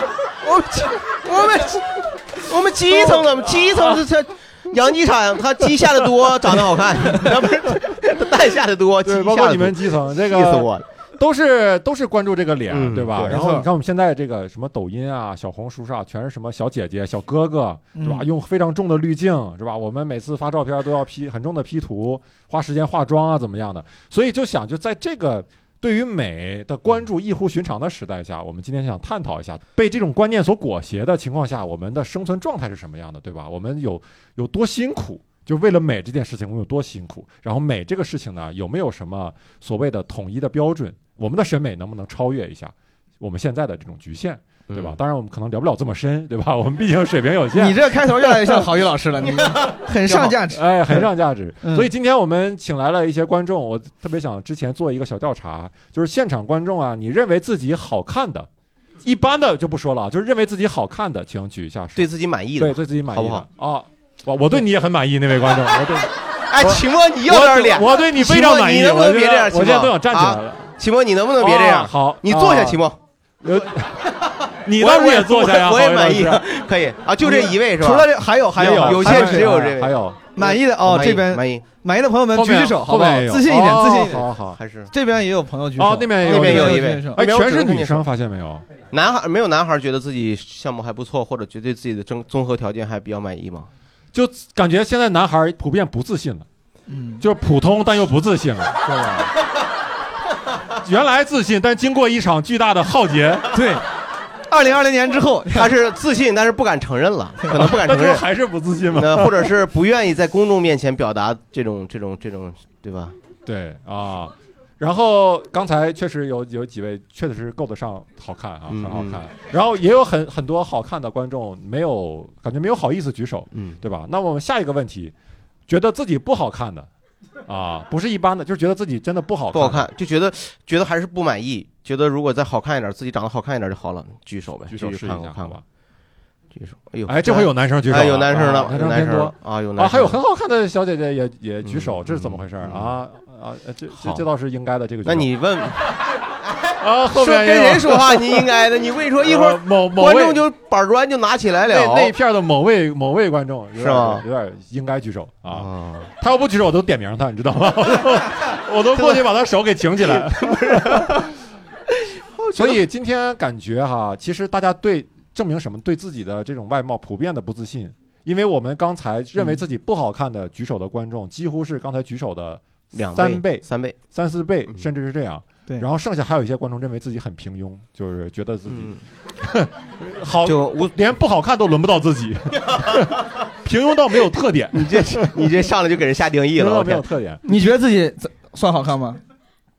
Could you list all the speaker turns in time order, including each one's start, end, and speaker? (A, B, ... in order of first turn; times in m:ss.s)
0:00.4-0:10.8 A
0:09.0-0:47.8 B
0:12.7-0:13.5 A
0:13.3-0:13.6 C
0:17.9-0:18.2 C
0:44.7-0:45.0 A
0:47.5-0:51.1 C
0:50.0-0:50.3 A
0:50.5-0:58.5 B
0:51.6-0:51.9 C
0:59.0-1:02.0 B
1:02.0-1:03.4 A
1:02.6-1:10.7 B
1:06.5-1:13.0 A
1:11.4-1:12.8 B
1:13.4-1:14.0 B
1:14.6-1:16.5 B
1:14.8-1:21.7 A
1:17.2-1:19.7 C
1:18.5-1:20.2 B
1:20.4-1:24.3 C
1:22.3-1:24.6 B
1:24.4-1:24.9 A
1:24.9-1:27.2 C
1:25.8-1:28.7 B
1:26.2-1:28.0 A
1:28.9-1:33.7 A
1:34.1-1:36.5 B
1:36.9-1:37.2 C
1:37.2-1:39.3 B
1:40.8-1:43.7 B
1:43.5-1:43.8 C
1:44.5-1:45.7 C
1:45.5-1:48.2 A
1:47.5-1:49.5 B
1:48.9-1:53.2 A
1:53.4-2:05.1 B
1:58.7-1:59.2 A
2:03.5-2:03.8 A
2:05.7-2:06.9 B
2:07.4-2:09.9 B
2:09.5-2:15.6 A
2:14.7-2:15.6 B
2:16.5-2:20.2 A
2:17.1-2:25.3 B
2:21.6-2:23.0 A
2:25.0-2:26.0 A
2:26.6-2:32.1 A
2:26.8-2:28.5 B
2:29.2-2:30.4 B
2:31.7-2:41.2 B
2:33.8-2:34.2 A
2:35.5-2:36.1 A
2:40.0-2:41.2 A
2:42.4-2:42.8 A
2:42.5-2:52.6 B
2:52.9-2:54.0 A
2:53.1-3:05.5 B
2:58.7-2:59.0 A
3:00.4-3:00.9 A
3:04.7-3:07.0 A
3:06.5-3:07.4 B
3:07.4-3:09.2 C